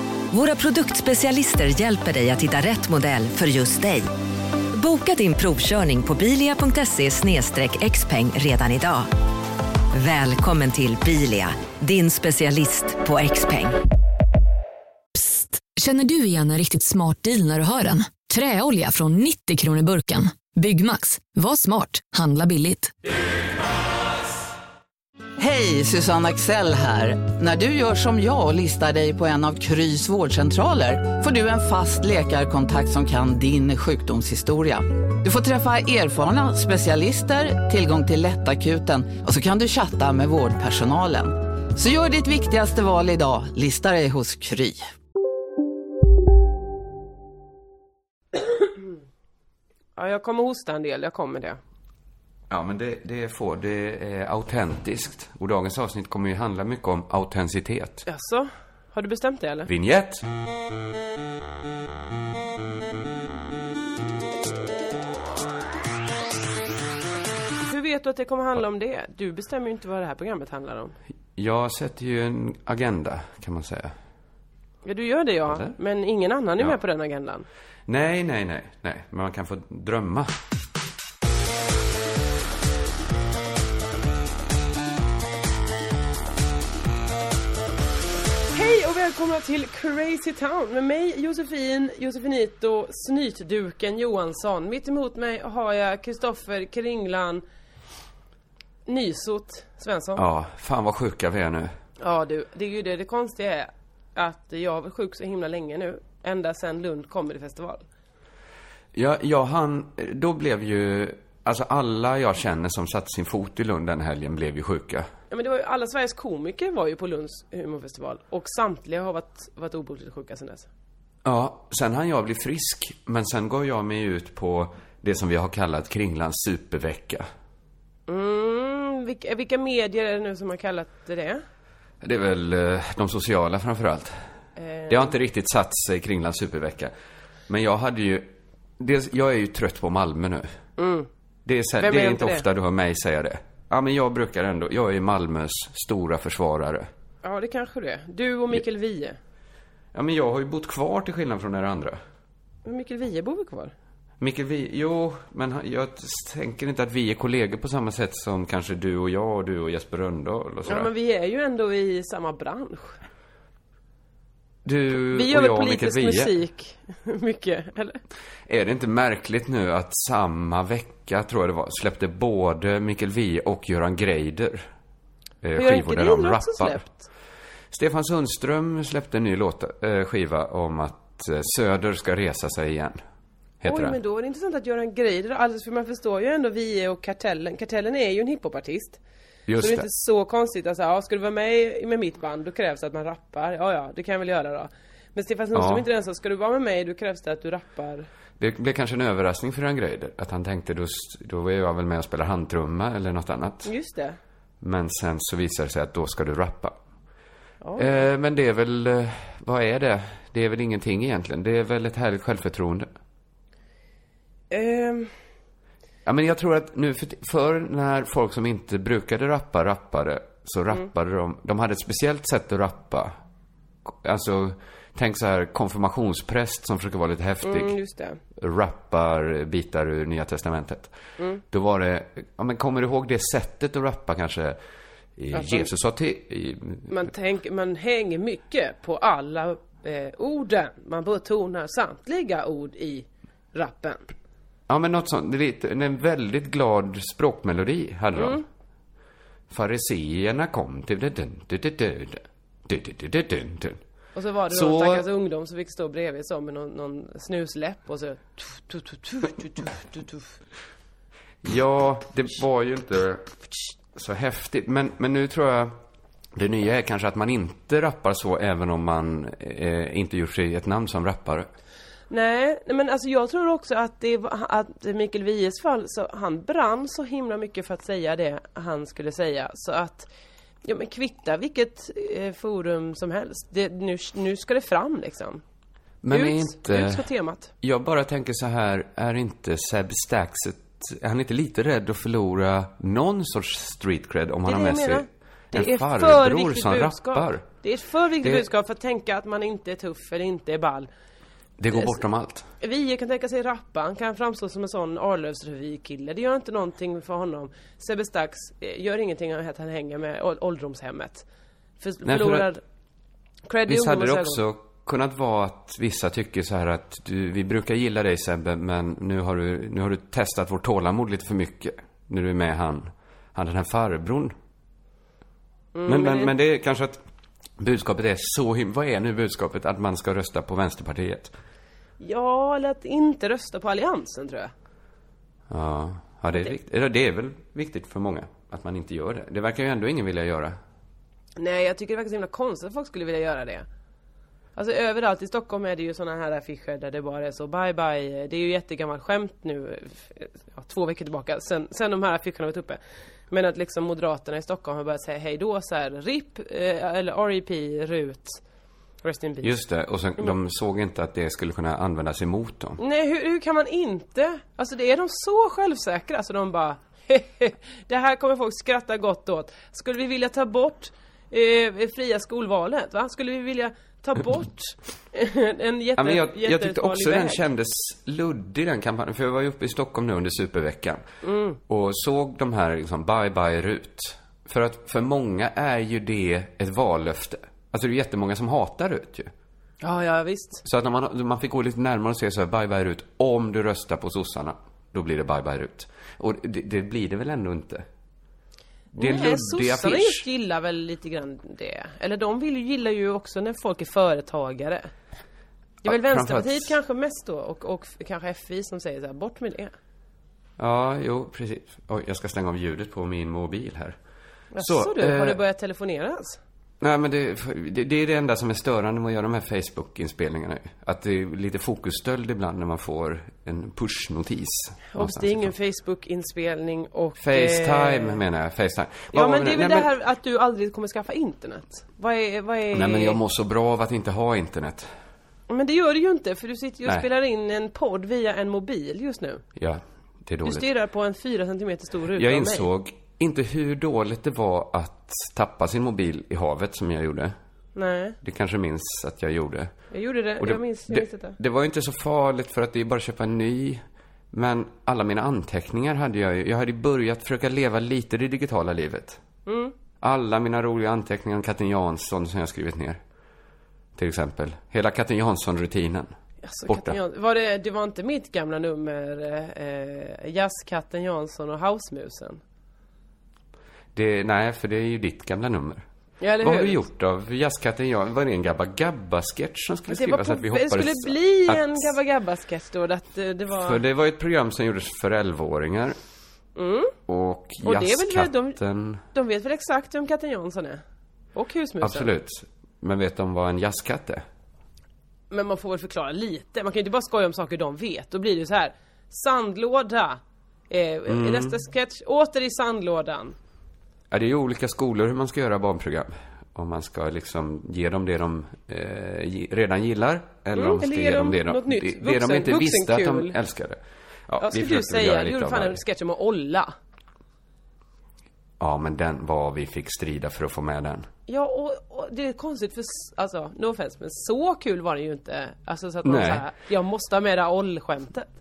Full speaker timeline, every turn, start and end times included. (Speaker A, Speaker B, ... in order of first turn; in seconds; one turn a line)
Speaker A: 0.3-4.1
Speaker A: 4.7-9.1
Speaker A: 9.9-13.8
Speaker B: 15.2-22.9
Speaker C: 25.4-44.9
Speaker D: 50.0-51.6
Speaker E: 52.5-58.0
Speaker D: 58.1-59.7
Speaker E: 59.7-60.2
Speaker D: 67.7-71.0
Speaker E: 71.4-74.0
Speaker D: 74.8-77.5
Speaker E: 75.5-75.8
Speaker E: 77.9-80.3
Speaker D: 88.5-97.4
Speaker D: 98.9-100.2
Speaker E: 100.2-101.8
Speaker D: 102.0-107.8
Speaker E: 108.9-115.1
Speaker D: 115.3-120.7
Speaker E: 121.2-127.3
Speaker D: 128.1-131.4
Speaker E: 132.0-134.2
Speaker D: 134.6-135.1
Speaker E: 134.9-136.9
Speaker E: 137.5-140.5
Speaker D: 140.8-141.1
Speaker E: 141.4-146.9
Speaker D: 141.8-142.5
Speaker D: 147.2-149.2
Speaker E: 149.9-152.0
Speaker D: 152.7-153.7
Speaker E: 154.2-160.9
Speaker D: 160.7-163.0
Speaker E: 164.7-166.3
Speaker D: 164.9-168.0
Speaker E: 168.5-174.7
Speaker E: 175.4-176.8
Speaker D: 175.6-177.1
Speaker E: 177.7-183.0
Speaker E: 183.6-184.0
Speaker D: 183.7-189.0
Speaker E: 189.5-189.9
Speaker D: 189.6-198.1
Speaker E: 195.5-195.9
Speaker E: 198.4-203.7
Speaker D: 203.7-204.2
Speaker E: 204.6-206.8
Speaker D: 207.6-208.0
Speaker E: 207.8-212.9
Speaker D: 214.5-215.1
Speaker E: 216.1-223.2
Speaker E: 223.9-227.8
Speaker D: 227.4-228.2
Speaker E: 228.4-230.9
Speaker E: 231.5-234.6
Speaker E: 235.2-237.1
Speaker D: 235.3-235.7
Speaker D: 236.9-244.1
Speaker E: 244.7-248.4
Speaker D: 248.2-248.4
Speaker E: 249.5-253.8
Speaker D: 254.2-260.2
Speaker E: 254.5-255.1
Speaker E: 261.4-263.4
Speaker E: 263.9-265.8
Speaker E: 266.4-271.5
Speaker D: 272.1-280.1
Speaker D: 280.6-285.4
Speaker E: 286.0-287.1
Speaker D: 286.1-287.5
Speaker E: 287.6-297.5
Speaker D: 294.4-300.9
Speaker E: 301.6-302.5
Speaker D: 301.7-302.0
Speaker D: 302.6-311.3
Speaker D: 311.8-312.6
Speaker E: 312.1-312.5
Speaker D: 313.5-314.4
Speaker E: 313.7-324.4
Speaker D: 325.7-326.3
Speaker E: 325.9-327.0
Speaker E: 327.6-331.3
Speaker D: 332.0-334.5
Speaker E: 335.5-340.6
Speaker D: 341.4-343.7
Speaker D: 344.6-358.4
Speaker D: 359.0-359.5
Speaker E: 359.4-362.8
Speaker D: 362.8-377.4
Speaker E: 376.0-381.0
Speaker D: 381.2-381.6
Speaker E: 381.7-389.3
Speaker D: 389.8-390.6
Speaker E: 390.6-397.9
Speaker E: 398.9-400.3
Speaker D: 398.9-404.9
Speaker E: 405.8-406.7
Speaker D: 405.9-409.7
Speaker E: 410.6-414.0
Speaker D: 414.5-416.4
Speaker E: 414.6-415.4
Speaker E: 416.8-425.5
Speaker D: 424.9-428.2
Speaker E: 427.2-429.9
Speaker D: 429.1-433.2
Speaker E: 432.7-434.9
Speaker D: 435.5-439.4
Speaker E: 439.6-440.7
Speaker D: 440.4-442.6
Speaker E: 442.1-447.4
Speaker D: 447.8-448.2
Speaker E: 448.2-449.7
Speaker D: 449.9-451.4
Speaker E: 450.4-459.2
Speaker D: 459.5-459.7
Speaker E: 460.0-463.0
Speaker E: 463.9-466.1
Speaker D: 466.4-472.4
Speaker E: 466.7-467.0
Speaker E: 473.9-475.9
Speaker D: 476.2-476.8
Speaker E: 476.4-481.9
Speaker D: 479.9-483.8
Speaker E: 483.6-486.0
Speaker D: 486.6-486.9
Speaker E: 487.1-489.0
Speaker D: 487.6-488.6
Speaker D: 489.1-490.8
Speaker D: 491.4-492.1
Speaker E: 491.8-494.2
Speaker D: 495.3-503.4
Speaker E: 501.1-501.6
Speaker E: 504.1-515.8
Speaker D: 510.6-513.4
Speaker D: 514.4-516.7
Speaker E: 518.6-521.1
Speaker D: 521.3-528.3
Speaker E: 526.0-526.5